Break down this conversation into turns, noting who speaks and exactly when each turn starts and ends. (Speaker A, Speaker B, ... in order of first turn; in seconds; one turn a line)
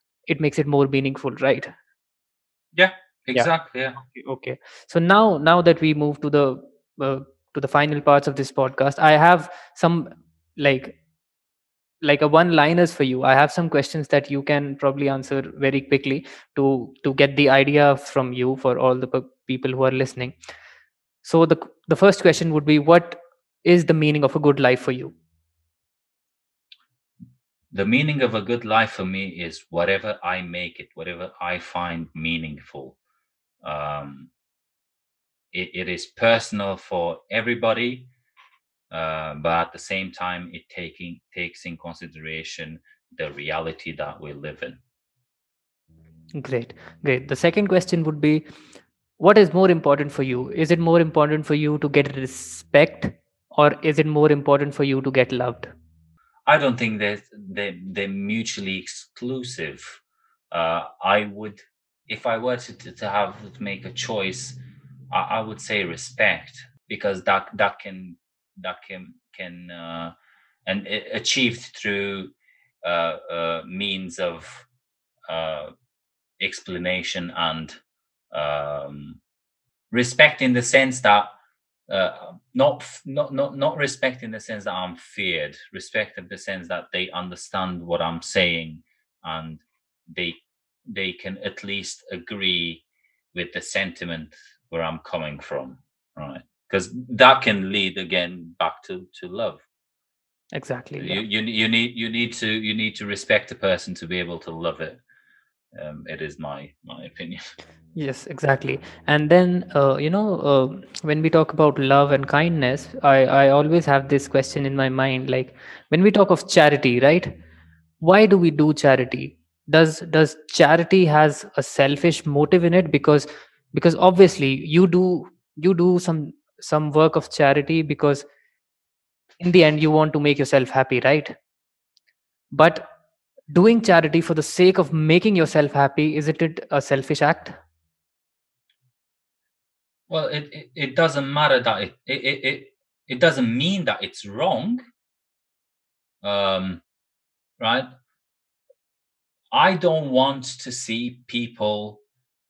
Speaker A: 0.3-1.7
Speaker B: 2.7-4.0
Speaker A: 3.3-10.9
Speaker A: 12.0-20.4
Speaker A: 21.2-25.1
Speaker B: 27.7-33.0
Speaker B: 33.6-34.3
Speaker B: 35.5-38.1
Speaker B: 38.9-44.8
Speaker A: 46.3-48.4
Speaker A: 49.2-55.7
Speaker B: 56.5-64.6
Speaker B: 65.1-70.1
Speaker B: 70.7-74.7
Speaker B: 75.3-75.7
Speaker B: 76.4-77.8
Speaker B: 78.3-79.2
Speaker B: 79.9-81.3
Speaker B: 81.9-99.6
Speaker A: 100.5-101.2
Speaker B: 101.0-105.0
Speaker B: 105.7-107.4
Speaker A: 108.0-117.3
Speaker A: 118.0-128.2
Speaker A: 129.4-131.4
Speaker A: 132.5-132.9
Speaker A: 133.5-137.6
Speaker B: 140.1-144.8
Speaker B: 146.2-146.8
Speaker B: 147.6-147.8
Speaker B: 149.5-152.0